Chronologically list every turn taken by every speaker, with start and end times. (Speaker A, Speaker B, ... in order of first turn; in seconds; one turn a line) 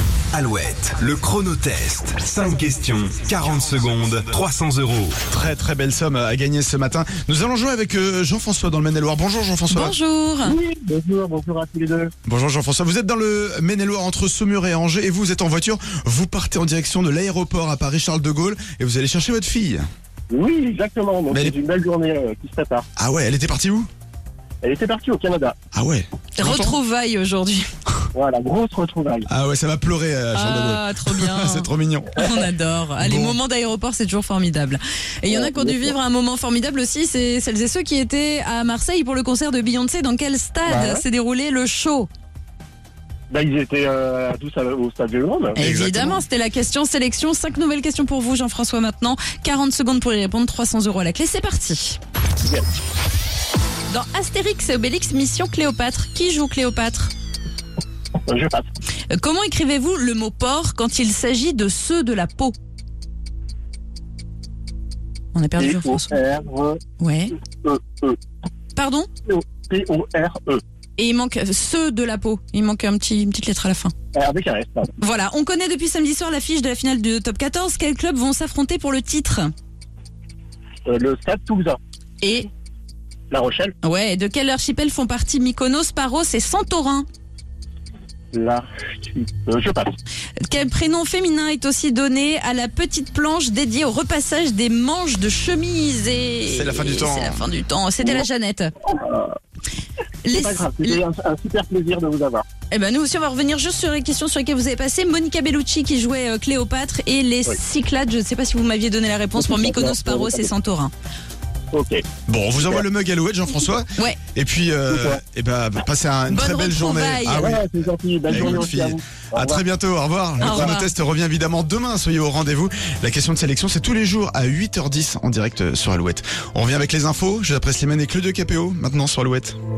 Speaker A: 0.3-5.2
Speaker B: 5.3-9.9
Speaker C: 9.7-10.6
Speaker D: 10.4-12.1
Speaker B: 12.2-19.9
Speaker D: 20.3-22.9
Speaker B: 21.3-21.6
Speaker B: 22.9-23.9
Speaker D: 24.6-25.6
Speaker B: 25.7-26.8
Speaker C: 26.4-27.7
Speaker D: 28.1-29.3
Speaker B: 29.3-32.4
Speaker C: 30.3-42.1
Speaker B: 33.0-33.4
Speaker D: 35.3-35.9
Speaker D: 40.6-41.0
Speaker D: 43.3-45.6
Speaker B: 45.5-46.2
Speaker C: 45.6-52.0
Speaker C: 53.9-57.1
Speaker D: 58.2-58.6
Speaker C: 59.1-62.5
Speaker C: 65.3-66.1
Speaker D: 65.6-66.8
Speaker C: 67.0-67.3
Speaker D: 67.6-68.2
Speaker C: 68.7-69.1
Speaker D: 69.2-70.6
Speaker C: 71.0-73.9
Speaker D: 74.1-75.0
Speaker C: 75.0-79.5
Speaker D: 80.8-81.8
Speaker C: 82.2-82.5
Speaker D: 83.3-83.7
Speaker C: 83.8-87.0
Speaker D: 88.3-90.0
Speaker C: 90.4-98.7
Speaker B: 96.4-97.4
Speaker D: 98.8-99.3
Speaker C: 100.2-101.0
Speaker D: 100.3-102.4
Speaker C: 102.7-110.9
Speaker D: 109.3-110.5
Speaker D: 111.7-112.0
Speaker B: 112.3-117.7
Speaker D: 114.9-115.2
Speaker C: 116.3-117.6
Speaker D: 117.3-119.6
Speaker B: 118.3-129.6
Speaker C: 118.3-118.6
Speaker C: 120.4-120.9